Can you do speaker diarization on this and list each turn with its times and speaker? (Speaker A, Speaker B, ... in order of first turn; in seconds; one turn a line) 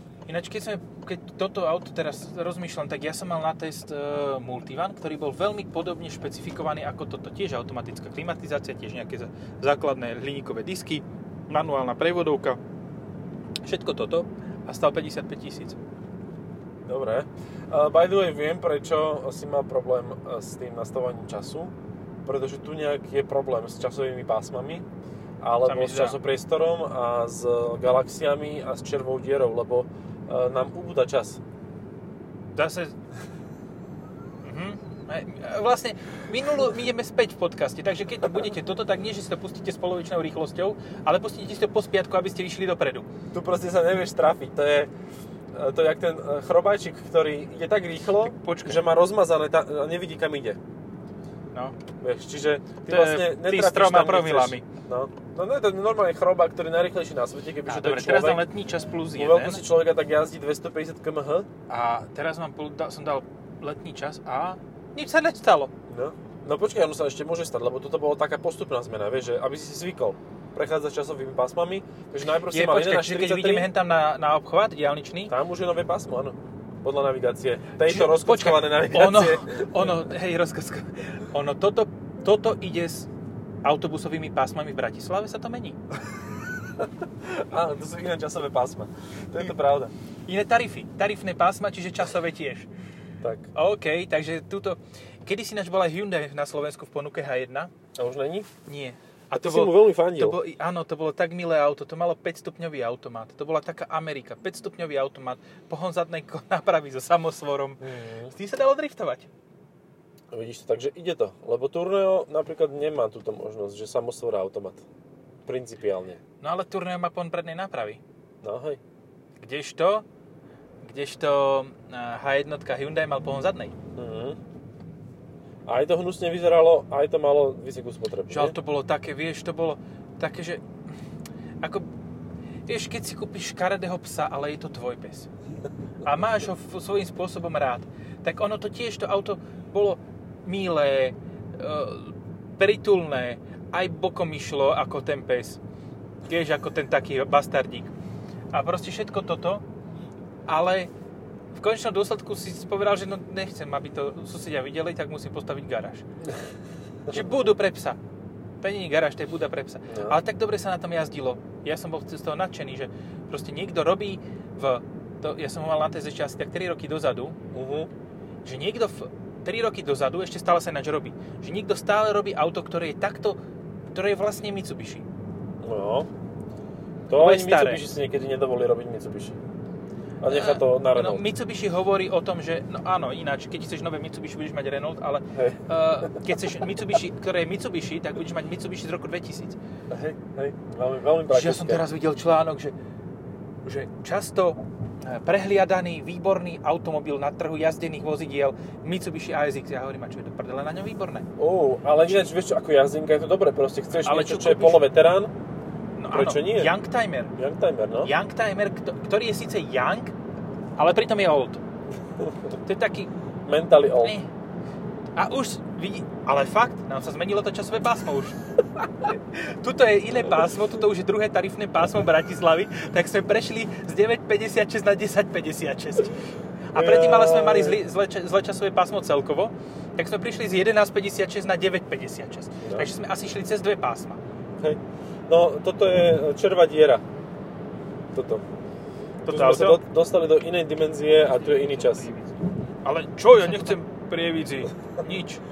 Speaker A: 0.3-12.6
Speaker A: 13.6-15.8
Speaker B: 16.9-21.7
Speaker B: 22.2-24.9
Speaker B: 25.4-31.4
Speaker A: 25.6-26.2
Speaker A: 32.5-33.0
Speaker A: 34.4-43.1
Speaker B: 43.3-44.9
Speaker B: 45.5-50.6
Speaker A: 48.2-48.8
Speaker B: 52.0-58.5
Speaker A: 52.9-54.6
Speaker A: 57.6-59.6
Speaker B: 59.1-61.5
Speaker A: 61.7-65.7
Speaker B: 65.9-73.7
Speaker A: 72.5-75.3
Speaker B: 75.3-79.9
Speaker A: 77.8-83.1
Speaker A: 83.6-85.8
Speaker B: 86.8-89.9
Speaker A: 90.3-92.7
Speaker B: 93.2-93.5
Speaker A: 93.5-97.7
Speaker B: 97.9-98.5
Speaker A: 98.7-109.3
Speaker B: 99.3-100.4
Speaker B: 107.8-108.3
Speaker B: 110.3-114.8
Speaker B: 115.5-116.2
Speaker A: 116.4-118.0
Speaker B: 118.4-118.8
Speaker A: 119.4-120.0
Speaker A: 120.8-123.7
Speaker B: 124.0-124.4
Speaker B: 125.7-128.5
Speaker A: 128.3-130.6
Speaker A: 131.6-131.9
Speaker A: 132.7-135.3
Speaker A: 136.0-145.6
Speaker A: 146.3-147.9
Speaker A: 148.5-149.6
Speaker A: 150.5-150.9
Speaker A: 151.5-156.0
Speaker A: 157.1-158.0
Speaker A: 158.6-167.4
Speaker B: 159.9-160.2
Speaker B: 167.5-167.9
Speaker A: 168.4-173.4
Speaker A: 173.9-175.0
Speaker B: 175.6-176.1
Speaker B: 177.1-179.4
Speaker A: 177.1-177.8
Speaker B: 180.2-181.3
Speaker A: 180.3-189.6
Speaker B: 185.3-186.2
Speaker B: 189.9-191.8
Speaker A: 191.3-192.7
Speaker A: 193.6-201.3
Speaker B: 201.4-205.3
Speaker A: 203.9-204.8
Speaker A: 206.0-207.3
Speaker B: 206.1-206.7
Speaker B: 207.3-208.1
Speaker A: 208.0-210.1
Speaker A: 210.8-211.6
Speaker B: 212.2-212.5
Speaker A: 212.7-213.1
Speaker B: 213.4-214.1
Speaker A: 214.0-214.3
Speaker A: 215.2-218.4
Speaker A: 219.0-234.2
Speaker B: 226.7-227.8
Speaker B: 232.6-232.9
Speaker B: 234.6-237.0
Speaker B: 238.1-238.4
Speaker A: 239.2-239.8
Speaker B: 239.3-242.1
Speaker A: 241.4-245.4